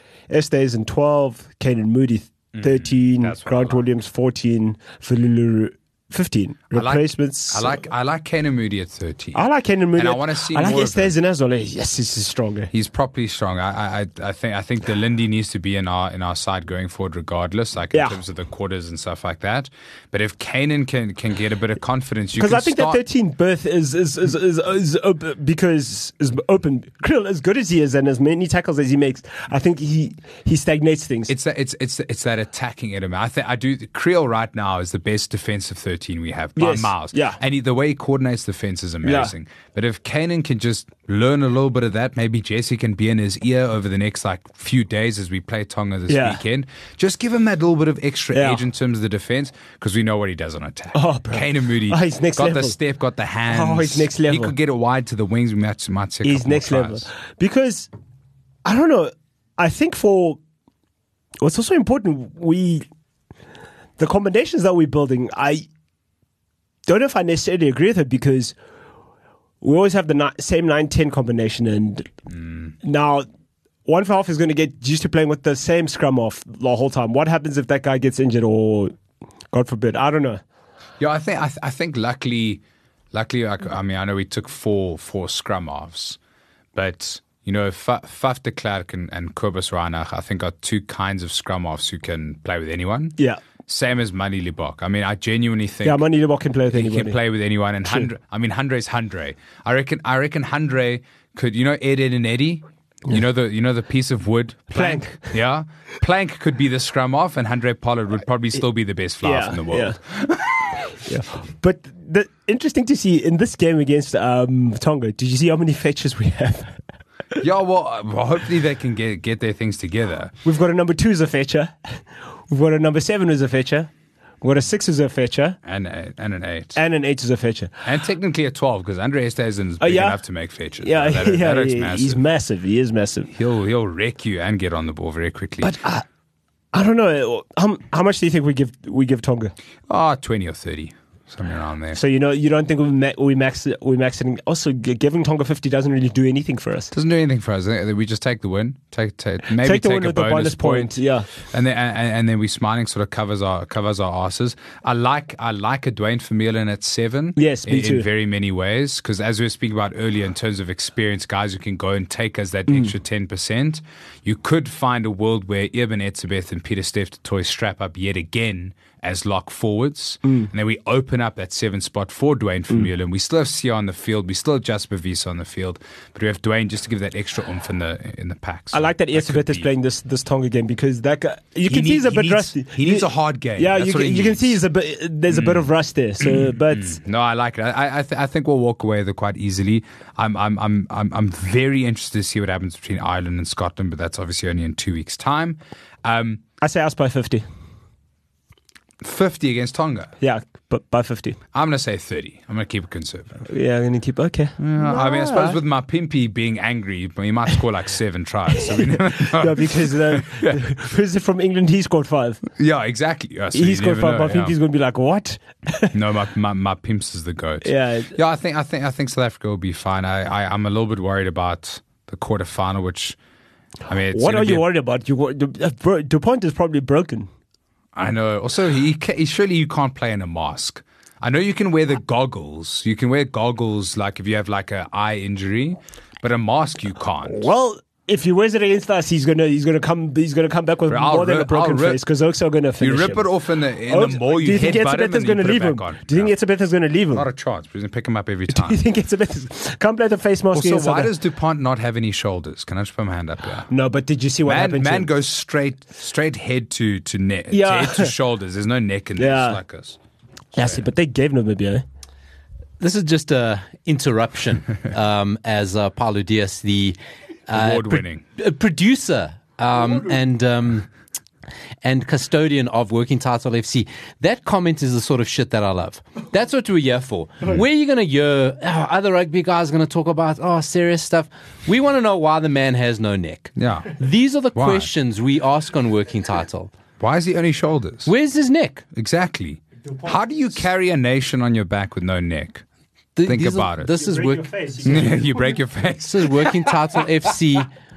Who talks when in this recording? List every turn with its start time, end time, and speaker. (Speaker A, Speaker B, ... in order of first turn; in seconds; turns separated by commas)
Speaker A: 0.3-7.8, Speaker B: 2.5-3.9, Speaker B: 6.7-9.4, Speaker A: 9.3-12.7, Speaker B: 10.0-11.2, Speaker B: 12.7-23.0, Speaker A: 17.9-18.2, Speaker A: 22.4-31.3, Speaker B: 31.3-57.1, Speaker A: 36.5-37.4, Speaker A: 39.0-39.3, Speaker A: 46.1-46.4, Speaker A: 48.3-48.6, Speaker A: 50.9-52.8, Speaker A: 53.5-54.5, Speaker A: 56.2-57.9, Speaker A: 58.6-60.4, Speaker A: 61.4-62.9, Speaker A: 64.0-65.7, Speaker A: 66.9-68.5, Speaker A: 69.6-72.1, Speaker B: 72.3-72.7, Speaker A: 72.8-73.3, Speaker A: 73.9-78.9, Speaker A: 79.5-80.4, Speaker B: 81.0-82.6, Speaker B: 83.1-86.2, Speaker B: 86.7-96.0, Speaker A: 95.8-97.2, Speaker B: 96.7-110.8, Speaker A: 104.7-105.4, Speaker A: 109.2-110.0, Speaker A: 110.9-116.8, Speaker B: 117.4-120.4, Speaker A: 120.4-123.9, Speaker A: 124.4-125.6, Speaker B: 125.6-126.8, Speaker A: 126.8-127.7, Speaker B: 127.8-132.2, Speaker A: 129.8-130.2, Speaker A: 130.8-133.3, Speaker B: 133.3-135.8, Speaker A: 135.6-136.0, Speaker A: 136.7-139.5, Speaker B: 139.9-142.0, Speaker A: 141.9-146.9, Speaker B: 146.9-179.7, Speaker A: 149.6-151.3, Speaker A: 157.4-158.1, Speaker A: 178.7-187.0, Speaker B: 181.7-184.6, Speaker B: 185.3-185.7, Speaker B: 186.2-196.4, Speaker A: 196.6-197.4, Speaker B: 199.0-200.1, Speaker A: 200.2-201.4, Speaker B: 201.5-203.5, Speaker A: 203.5-205.6, Speaker B: 204.6-210.6, Speaker A: 208.5-212.4, Speaker B: 212.6-214.5, Speaker A: 213.5-215.9, Speaker B: 215.9-223.2, Speaker A: 217.6-218.1, Speaker B: 223.9-224.7, Speaker A: 224.1-227.3, Speaker B: 227.9-237.5, Speaker A: 237.2-243.3, Speaker B: 240.9-242.0, Speaker B: 242.8-246.3, Speaker A: 243.9-247.2, Speaker B: 247.1-248.8, Speaker A: 248.5-251.1, Speaker B: 250.5-253.7, Speaker A: 253.7-255.1, Speaker B: 254.4-260.0, Speaker A: 257.5-258.1, Speaker A: 259.2-259.6, Speaker A: 260.5-261.8, Speaker B: 260.6-260.9, Speaker C: 262.8-267.0, Speaker C: 267.5-270.9, Speaker B: 267.5-268.2, Speaker C: 271.8-286.7, Speaker B: 283.6-284.0, Speaker B: 284.5-284.9, Speaker B: 287.0-288.1, Speaker C: 288.1-288.9, Speaker B: 288.9-292.6, Speaker C: 293.1-295.1, Speaker B: 293.2-293.9, Speaker A: 293.9-295.3, Speaker B: 294.9-296.8, Speaker C: 296.0-297.7